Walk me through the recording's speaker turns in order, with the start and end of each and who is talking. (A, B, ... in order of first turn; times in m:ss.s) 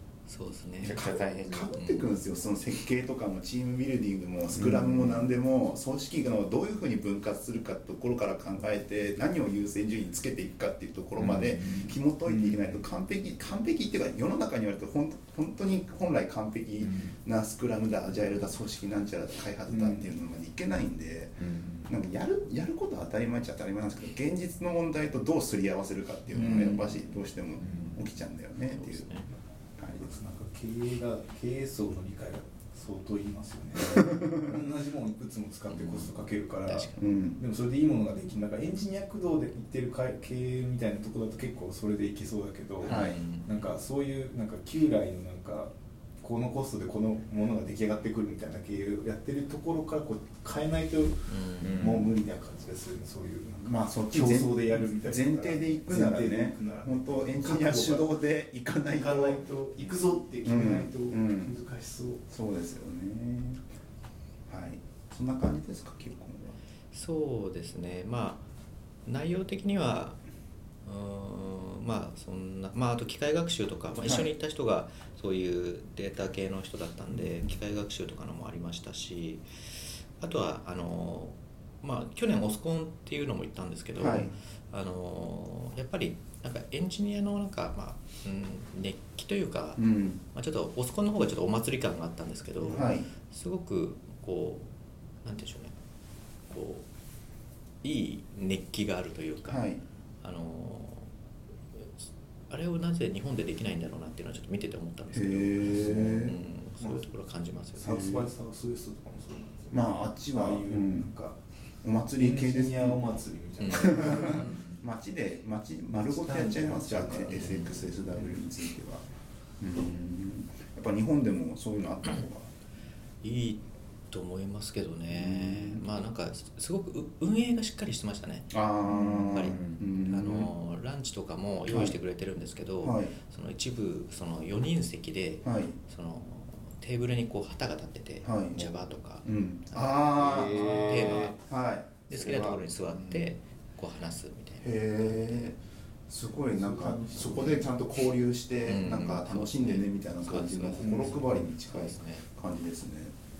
0:00.3-0:01.0 A
0:00.8-0:01.7 B
0:01.4-0:29.2 C
0:01.7-0:02.1 A
0:04.6-0:05.1 D
0:11.3-0:12.8 D
0:19.7-0:20.1 D
0:21.4-0:21.9 B
0:26.3-0:27.0 D
0:28.6-0:29.3 A
0:29.8-0:30.1 C
0:30.0-0:58.1 D
0:34.2-0:34.5 C
0:35.7-0:37.1 A
0:37.0-0:37.4 C
0:42.8-0:43.6 A
0:42.8-0:43.2 C
0:51.3-0:51.8 A
0:51.6-0:52.2 B
0:53.6-0:59.5 C
0:58.9-1:02.2 D
1:00.4-1:01.6 C
1:02.3-1:03.6 C
1:04.5-1:06.6 C
1:06.9-1:08.5 A
1:09.0-1:10.2 A
1:10.8-1:19.4 A
1:14.0-1:14.3 C
1:20.2-1:34.7 A
1:23.9-1:24.3 C
1:29.8-1:30.2 C
1:32.6-1:33.1 C
1:35.2-1:35.7 A
1:36.5-1:36.8 A
1:37.8-1:39.6 A
1:39.4-1:39.8 C
1:40.2-1:41.1 A
1:41.7-1:48.1 A
1:45.1-1:46.4 C
1:46.8-1:47.1 D
1:47.7-1:51.4 D
1:47.8-1:48.3 C
1:49.7-1:51.1 C
1:51.8-1:53.0 C
1:52.2-1:54.6 D
1:53.6-1:54.6 A
1:53.7-1:59.0 C
1:55.9-1:58.4 D
1:59.6-2:02.5 C
2:03.2-2:08.6 A
2:05.1-2:05.8 C
2:08.5-2:10.5 C
2:08.9-2:09.8 B
2:09.2-2:21.4 A
2:11.7-2:12.0 C
2:12.8-2:13.1 C
2:15.4-2:15.8 C
2:18.2-2:22.6 C
2:20.2-2:21.3 B
2:20.6-2:21.2 D
2:22.1-2:25.5 A
2:24.6-2:25.6 C
2:26.1-2:33.1 C
2:26.5-2:27.6 D
2:28.6-2:32.2 A
2:30.8-2:31.4 D